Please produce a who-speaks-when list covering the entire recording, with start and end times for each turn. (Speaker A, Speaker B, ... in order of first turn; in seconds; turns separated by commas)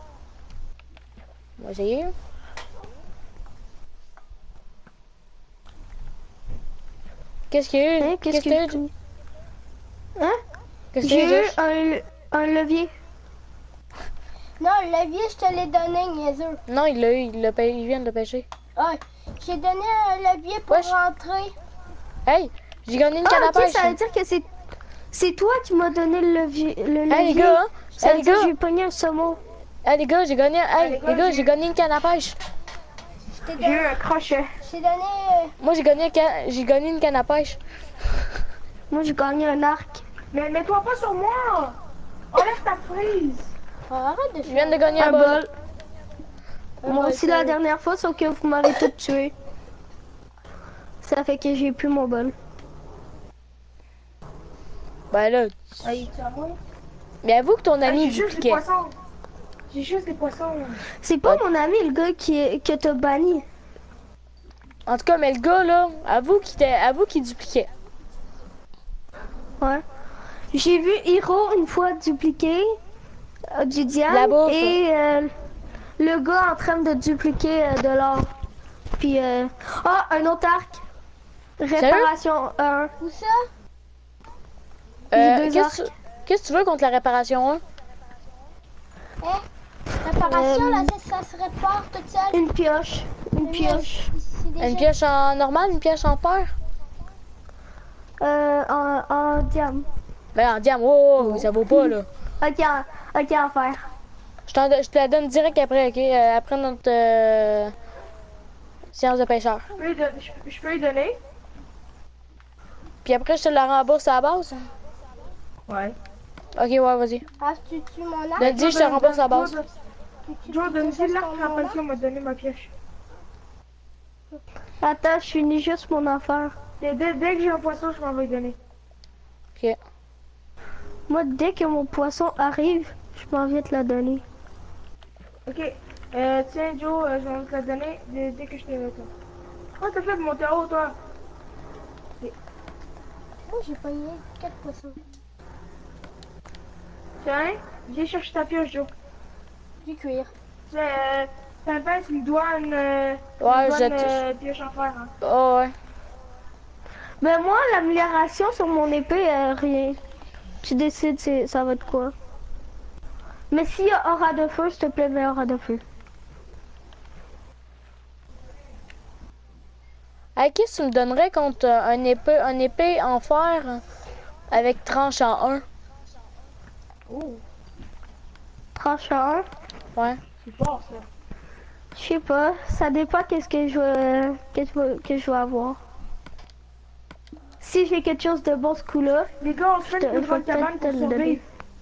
Speaker A: 1.6-2.1, Speaker A: 7.5-8.8, Speaker B: 8.0-8.9, Speaker A: 10.9-11.6, Speaker B: 11.0-12.9, Speaker C: 14.6-16.6, Speaker A: 16.7-18.5, Speaker C: 18.8-21.5, Speaker A: 20.7-20.9, Speaker A: 22.3-24.0, Speaker B: 23.2-24.5, Speaker B: 25.1-29.4, Speaker A: 27.1-28.5, Speaker A: 29.8-32.4, Speaker D: 30.8-31.5, Speaker C: 33.4-34.0, Speaker D: 33.6-34.5, Speaker C: 34.6-35.5, Speaker A: 35.6-37.6, Speaker B: 38.9-40.0, Speaker D: 40.3-41.8, Speaker D: 42.3-43.5, Speaker C: 43.9-45.0, Speaker A: 44.5-45.4, Speaker B: 45.0-45.5, Speaker C: 46.8-47.3, Speaker B: 46.9-49.3, Speaker B: 51.0-52.4, Speaker A: 55.1-55.8, Speaker D: 55.8-56.6, Speaker A: 57.2-58.6, Speaker D: 57.9-59.0, Speaker D: 59.7-60.9, Speaker B: 61.0-63.5, Speaker A: 64.9-67.7, Speaker B: 70.5-72.8, Speaker B: 73.5-75.3, Speaker A: 74.1-74.8, Speaker B: 76.0-78.3, Speaker B: 79.0-80.8, Speaker B: 81.6-82.9, Speaker A: 81.8-82.1, Speaker C: 83.0-83.5, Speaker A: 85.1-87.6, Speaker B: 85.1-85.9, Speaker C: 90.0-92.4, Speaker B: 90.2-90.9, Speaker B: 92.3-94.1, Speaker C: 93.4-94.9, Speaker A: 94.6-96.5, Speaker B: 98.2-99.9, Speaker A: 100.3-102.1, Speaker B: 101.2-103.9, Speaker A: 104.5-107.8, Speaker A: 108.9-109.7, Speaker D: 109.8-111.2, Speaker A: 113.0-114.7, Speaker D: 115.7-116.0, Speaker A: 116.6-117.2, Speaker C: 117.4-118.6, Speaker A: 118.4-119.6, Speaker D: 118.4-119.7, Speaker C: 120.3-121.8, Speaker D: 120.5-122.7, Speaker B: 124.8-126.6, Speaker D: 126.8-128.6, Speaker B: 131.1-134.2, Speaker D: 135.5-139.1, Speaker D: 139.8-140.9, Speaker C: 143.5-145.0, Speaker D: 147.2-148.9, Speaker C: 149.8-150.3, Speaker D: 150.7-155.1, Speaker A: 153.4-154.2, Speaker A: 155.2-155.7, Speaker B: 157.2-160.0, Speaker B: 160.6-162.2, Speaker B: 163.5-165.8, Speaker A: 170.4-173.8, Speaker A: 174.5-175.7, Speaker D: 177.1-177.4, Speaker B: 178.8-179.5, Speaker A: 179.9-180.2, Speaker D: 180.4-181.1, Speaker B: 181.9-185.8, Speaker B: 187.6-189.3, Speaker D: 189.4-191.4, Speaker B: 189.8-191.4